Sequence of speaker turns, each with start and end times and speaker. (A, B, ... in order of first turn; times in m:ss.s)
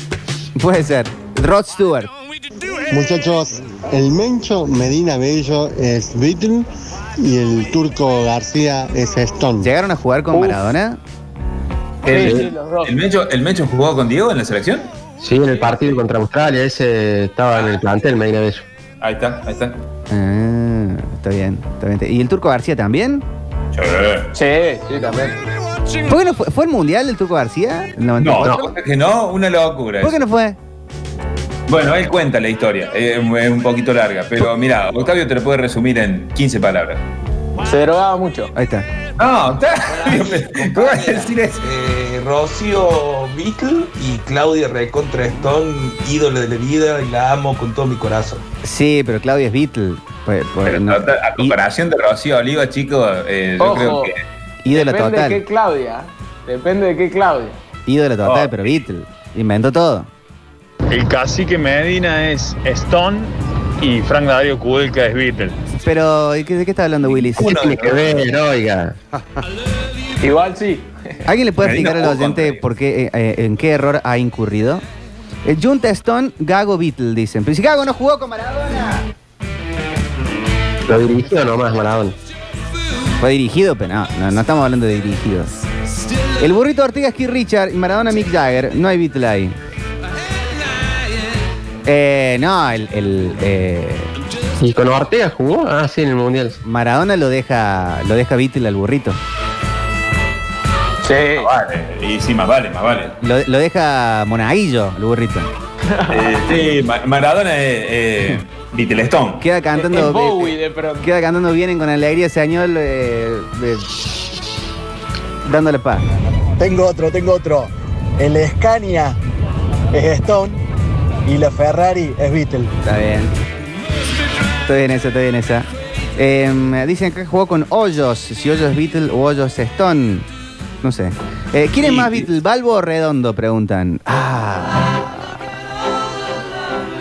0:00.6-0:02.1 A
0:02.9-0:09.7 B
0:09.6-0:11.0 A
0:10.3-0:10.6 C
0:12.0-0:13.0 C
0:12.0-0:14.9 D
0:12.1-0:12.5 E
0:15.2-0:18.6 E
0:19.0-0:19.8 D
0:20.1-0:23.2 A
0:23.7-0:24.3 D
0:24.3-0:25.4 C
0:26.1-0:28.7 A
0:28.2-0:30.2 D
0:30.0-0:30.6 A
0:31.7-0:37.0 D
0:37.6-0:38.5 C
0:38.5-0:38.9 A
0:39.2-0:41.6 D
0:39.9-0:48.4 F
0:48.6-0:51.6 A
0:50.6-0:54.2 D
0:53.6-0:54.1 C
0:54.6-0:55.4 A
0:54.7-0:57.6 C
0:57.9-1:00.1 A
1:00.9-1:05.6 G
1:05.8-1:07.6 A
1:07.1-1:08.3 D
1:07.4-1:09.0 E
1:10.2-1:10.9 C
1:11.2-1:14.8 A
1:11.6-1:12.6 D
1:15.4-1:19.1 A
1:20.9-1:22.2 E
1:23.2-1:25.5 A
1:26.4-1:29.6 A
1:31.8-1:34.1 A
1:34.6-1:36.6 E
1:36.6-1:39.2 A
1:41.0-1:41.5 C
1:41.4-1:43.2 D
1:43.2-1:45.5 A
1:45.9-1:46.5 C
1:46.1-1:49.4 D
1:49.4-1:54.0 A
1:49.7-1:51.1 C
1:55.4-1:56.0 A
1:56.6-1:59.2 H
1:59.9-2:00.6 H
2:01.2-2:02.7 H
2:02.8-2:03.3 A
2:04.6-2:10.3 A
2:10.8-2:15.4 A
2:11.8-2:12.2 D